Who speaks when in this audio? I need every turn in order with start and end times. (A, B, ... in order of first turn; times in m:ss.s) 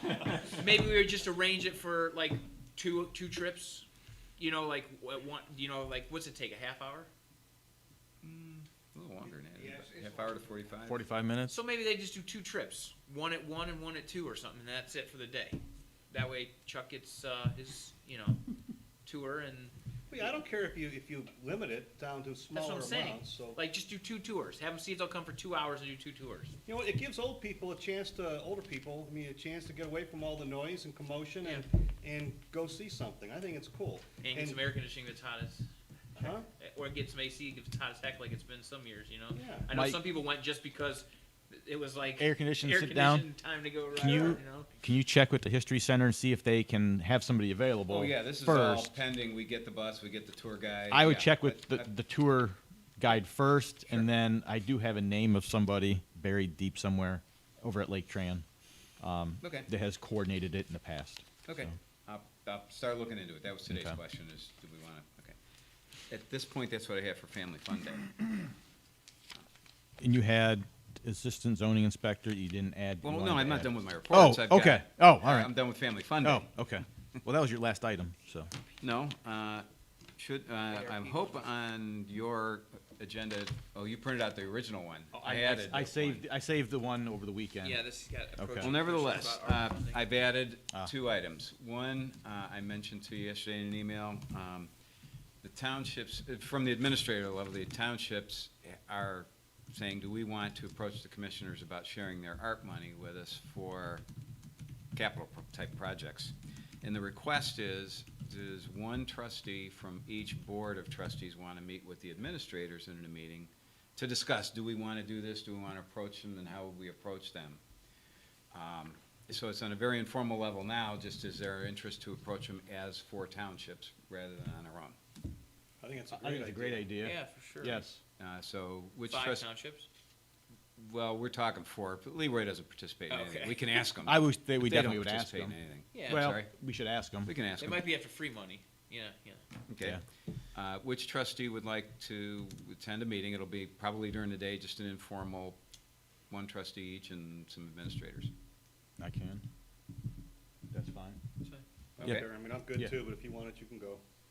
0:00.5-0:07.1 A
0:08.2-0:11.0 B
0:09.6-0:10.4 A
0:10.8-0:11.5 C
0:11.5-0:15.6 A
0:16.1-0:18.4 A
0:19.0-0:19.7 A
0:20.1-0:23.6 D
0:22.5-0:26.5 A
0:26.6-0:34.6 D
0:34.2-0:35.6 A
0:36.2-0:36.5 D
0:36.2-0:44.7 A
0:39.3-0:39.7 D
0:39.7-0:40.0 C
0:42.2-0:43.3 C
0:43.9-0:48.9 C
0:47.9-0:51.9 B
0:50.9-0:58.4 C
0:59.0-1:01.7 C
0:59.4-0:59.7 B
1:01.4-1:05.4 B
1:03.7-1:04.0 C
1:06.1-1:08.2 B
1:10.0-1:15.7 C
1:13.0-1:16.5 B
1:16.2-1:18.5 C
1:18.8-1:26.2 B
1:20.6-1:21.4 A
1:25.1-1:27.8 C
1:27.6-1:30.0 A
1:28.4-1:28.7 C
1:28.6-1:34.7 B
1:35.4-1:44.0 B
1:44.9-1:57.6 B
1:58.5-2:05.0 B
2:05.8-2:06.8 D
2:06.1-2:08.0 C
2:07.0-2:07.8 A
2:08.2-2:09.5 B
2:09.0-2:09.9 A
2:10.8-2:16.5 B
2:13.1-2:13.8 A
2:14.0-2:15.5 C
2:15.9-2:16.3 A
2:16.0-2:17.3 C
2:17.2-2:17.8 B
2:17.5-2:19.4 A
2:19.7-2:20.0 B
2:20.5-2:25.6 B
2:26.3-2:28.3 B
2:29.0-2:29.4 C
2:30.7-2:31.2 C
2:32.0-2:34.0 D